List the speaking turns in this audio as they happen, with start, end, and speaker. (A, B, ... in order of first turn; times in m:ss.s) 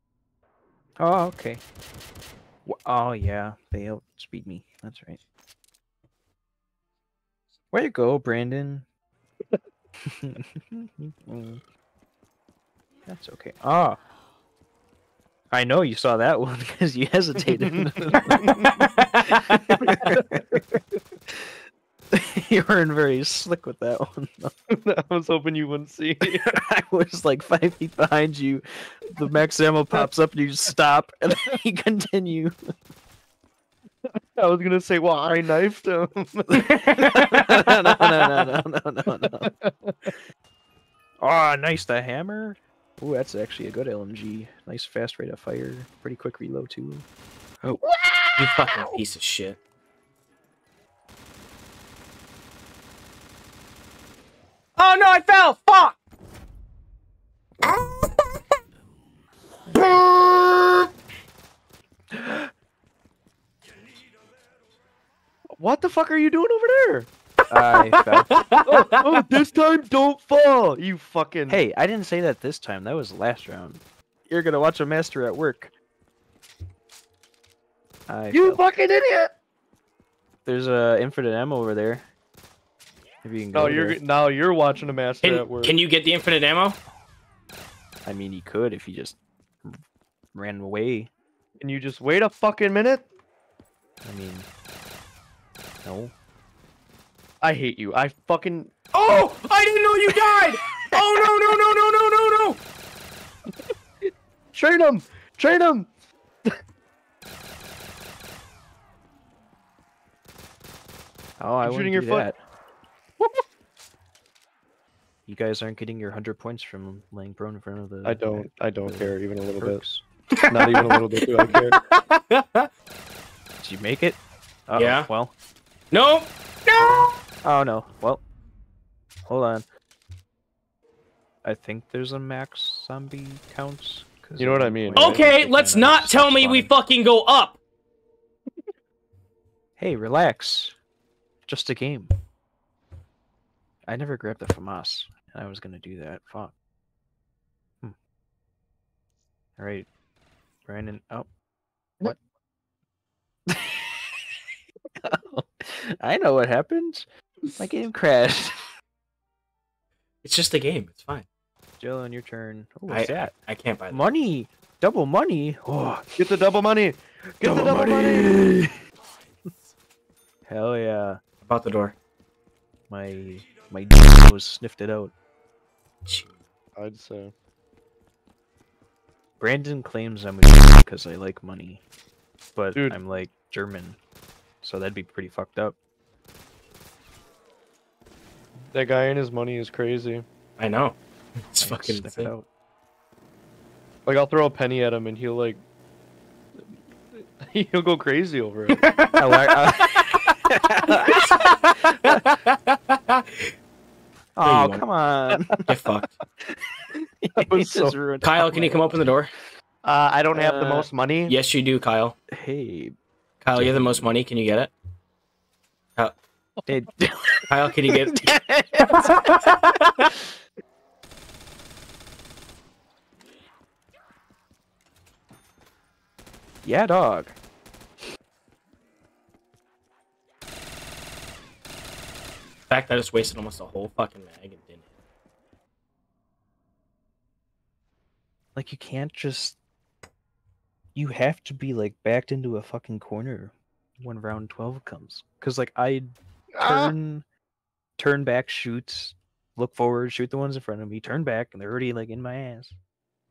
0:01.0-0:01.6 A
0:02.6-0:05.2 A
0:07.7-0:08.8 A
0:10.2-0:11.6 A
0:13.1-0:14.0 A
0:15.5-0:18.6 A
0:18.3-0:18.8 B
0:18.6-0:19.3 C
0:19.3-0:20.8 A
0:20.1-0:20.4 B
0:22.1-0:24.5 A
0:24.8-0:26.4 B
0:26.2-0:32.5 A
0:34.4-0:36.7 B
0:36.5-0:39.5 A
0:36.6-0:37.6 C
0:39.4-0:40.1 B
0:41.2-0:47.0 A
0:47.8-0:48.9 B
0:48.4-0:49.6 C
0:54.8-0:56.0 C
0:59.7-1:00.0 A
0:59.8-1:00.6 B
1:02.1-1:02.5 A
1:05.5-1:07.1 B
1:07.5-1:08.3 A
1:08.2-1:08.9 C
1:08.7-1:11.6 B
1:11.5-1:15.7 A
1:18.1-1:18.6 A
1:18.3-1:19.3 B
1:20.4-1:22.1 A
1:23.2-1:24.0 A
1:23.5-1:25.8 B
1:25.2-1:26.8 C
1:28.0-1:29.8 A
1:30.3-1:31.1 A
1:31.6-1:33.1 B
1:34.0-1:34.5 A
1:35.8-1:36.1 A
1:37.4-1:38.8 B
1:38.9-1:42.6 C
1:44.5-1:45.9 B
1:51.4-1:52.4 A
1:51.6-1:52.3 B
1:55.2-2:00.0 A
1:58.0-1:59.8 B
2:00.5-2:01.8 B
2:00.5-2:01.4 C
2:01.9-2:02.7 C
2:03.6-2:05.3 A
2:04.8-2:05.1 C
2:05.9-2:07.2 C
2:07.4-2:08.2 A
2:09.3-2:09.6 A
2:11.4-2:16.7 A
2:14.4-2:15.3 B
2:14.9-2:17.6 C
2:19.8-2:20.8 A
2:21.4-2:22.1 A
2:23.9-2:26.5 A
2:29.6-2:29.9 A
2:30.6-2:31.3 A
2:33.5-2:34.2 A
2:35.0-2:37.0 A
2:37.6-2:38.6 A
2:40.2-2:41.2 C
2:41.8-2:43.3 A
2:42.9-2:44.1 C
2:43.9-2:46.1 A
2:46.2-2:48.3 B
2:47.4-2:48.7 A
2:50.5-2:51.2 A
2:51.4-2:52.0 C
2:52.9-2:55.1 A
2:56.0-2:56.4 C
2:56.8-2:57.3 B
2:59.4-3:01.8 A
3:02.6-3:04.0 A
3:02.7-3:03.0 B
3:04.6-3:05.8 A
3:08.7-3:10.2 B
3:10.6-3:11.0 C
3:11.5-3:12.3 C
3:11.6-3:12.5 A
3:14.0-3:15.6 B
3:17.4-3:18.8 B
3:18.7-3:19.5 C
3:19.2-3:21.4 A
3:21.0-3:23.5 C
3:24.4-3:25.6 A
3:24.4-3:24.8 C
3:25.7-3:26.1 C
3:27.2-3:29.0 A
3:27.4-3:28.0 B
3:28.2-3:29.3 C
3:29.8-3:31.3 B
3:30.3-3:30.9 A
3:31.3-3:32.2 C
3:32.3-3:32.9 A
3:33.4-3:34.7 C
3:33.5-3:34.1 A
3:36.7-3:39.3 A
3:37.5-3:38.3 C
3:39.2-3:39.8 C
3:46.6-3:47.4 A
3:52.7-3:54.8 C
3:58.5-3:59.6 A
4:00.9-4:07.2 A
4:06.5-4:06.9 B
4:08.0-4:12.8 A